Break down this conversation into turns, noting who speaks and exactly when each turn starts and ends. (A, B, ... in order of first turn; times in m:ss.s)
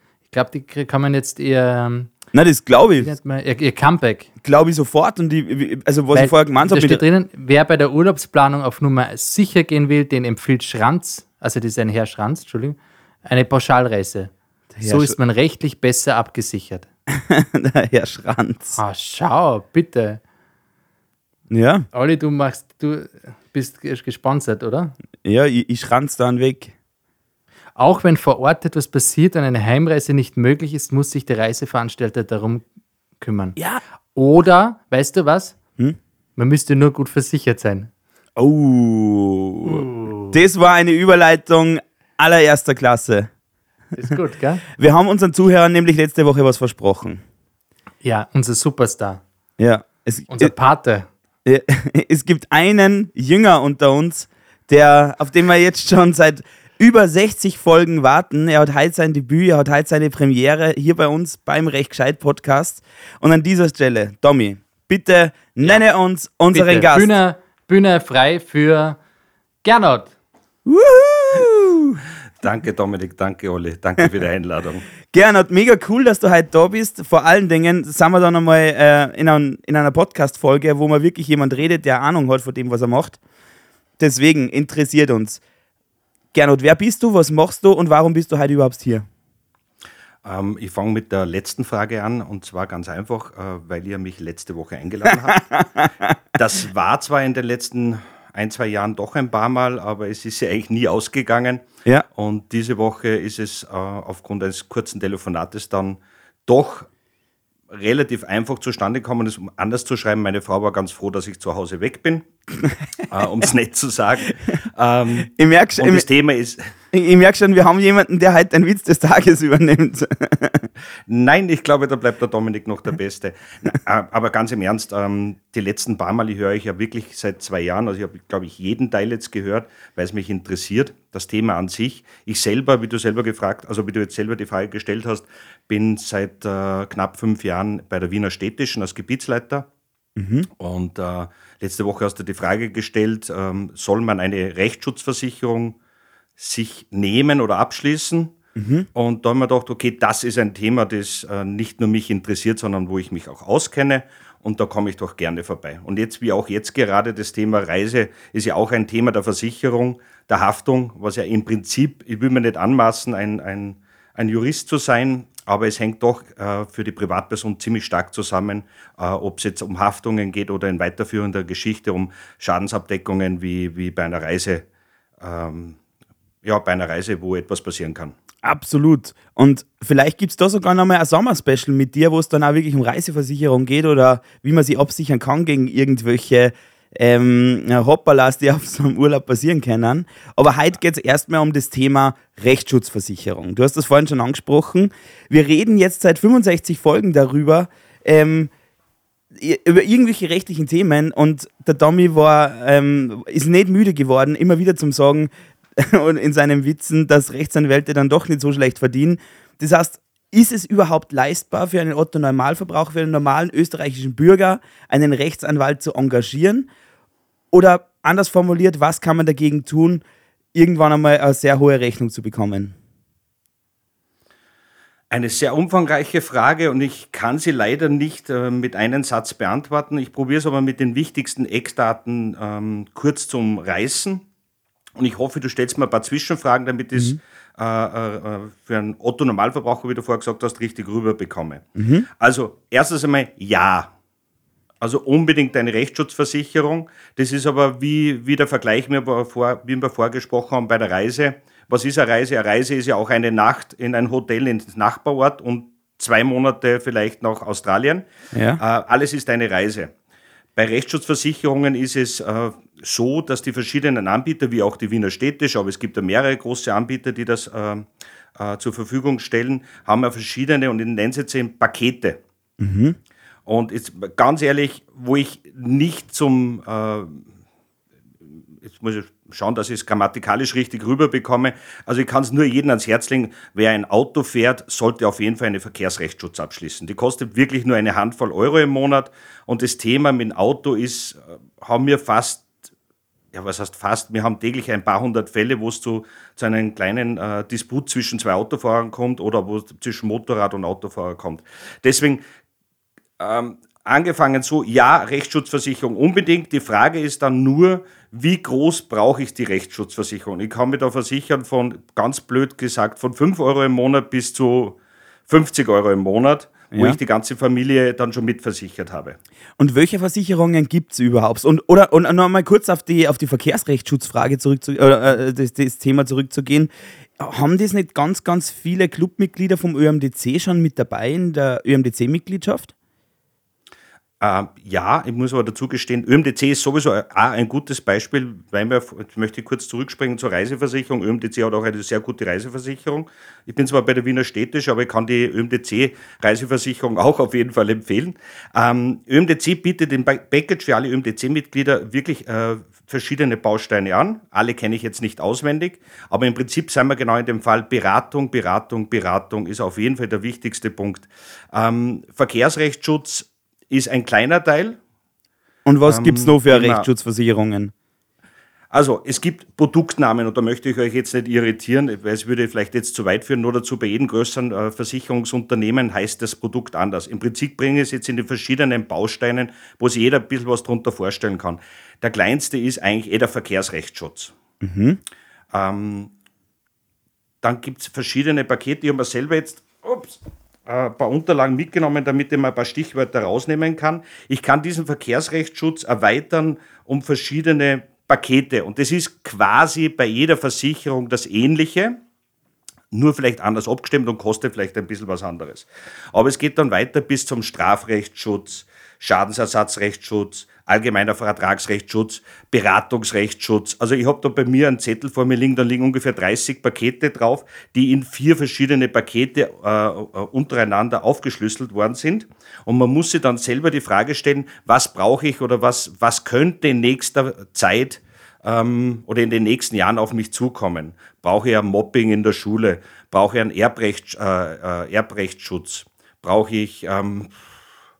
0:00.3-0:02.1 A
0:02.3-0:03.1 B
0:03.0-0:04.3 A
0:04.4-0:07.0 B
0:06.1-0:16.9 A
0:14.7-0:15.2 B
0:17.1-0:18.8 B
0:18.8-0:20.2 A
0:21.5-0:21.9 B
0:21.9-0:24.9 A
0:25.2-0:26.7 B
0:27.8-0:32.6 A
0:33.2-0:33.6 A
0:34.1-0:35.6 A
0:36.4-0:37.9 A
0:38.4-0:43.3 B
0:39.6-0:40.4 A
0:44.0-0:44.6 A
0:44.7-0:47.2 B
0:48.0-0:49.2 A
0:49.6-0:50.5 B
0:50.3-0:51.1 A
0:51.4-1:07.2 B
1:06.5-1:09.0 A
1:09.6-1:10.1 A
1:10.7-1:12.0 B
1:12.4-1:14.9 C
1:15.1-1:23.2 B
1:24.0-1:25.4 B
1:26.3-1:29.1 B
1:30.2-1:35.5 C
1:35.1-1:36.1 B
1:36.4-1:46.9 C
1:47.7-1:52.3 C
1:53.1-1:56.7 C
1:55.2-1:56.1 B
1:56.9-2:00.7 B
2:01.1-2:19.7 C
2:20.2-2:20.5 B
2:20.6-2:25.8 C
2:26.4-2:28.4 C
2:28.6-2:28.9 B
2:29.0-2:54.6 C
2:55.2-2:55.8 C
2:56.4-2:58.2 C
2:58.4-3:18.5 B
3:19.3-3:36.7 B
3:37.5-3:40.0 B
3:40.5-3:42.8 B
3:45.1-3:54.2 C
3:55.0-4:01.6 C
4:01.8-4:02.1 B
4:02.2-4:03.9 C
4:04.8-4:19.9 C
4:18.3-4:18.6 B
4:20.6-4:32.2 C
4:32.6-4:33.0 B
4:33.5-4:37.3 C
4:38.6-4:52.5 C
4:53.3-5:02.2 C
5:03.2-5:14.8 C
5:15.3-5:19.2 C
5:16.7-5:17.0 B
5:19.6-5:32.7 B
5:34.2-6:04.8 C
6:05.6-6:07.7 B
6:05.8-6:06.9 C
6:08.7-6:24.4 C
6:24.6-6:25.0 B
6:25.5-6:26.1 C
6:27.4-6:42.0 C
6:42.9-7:17.4 C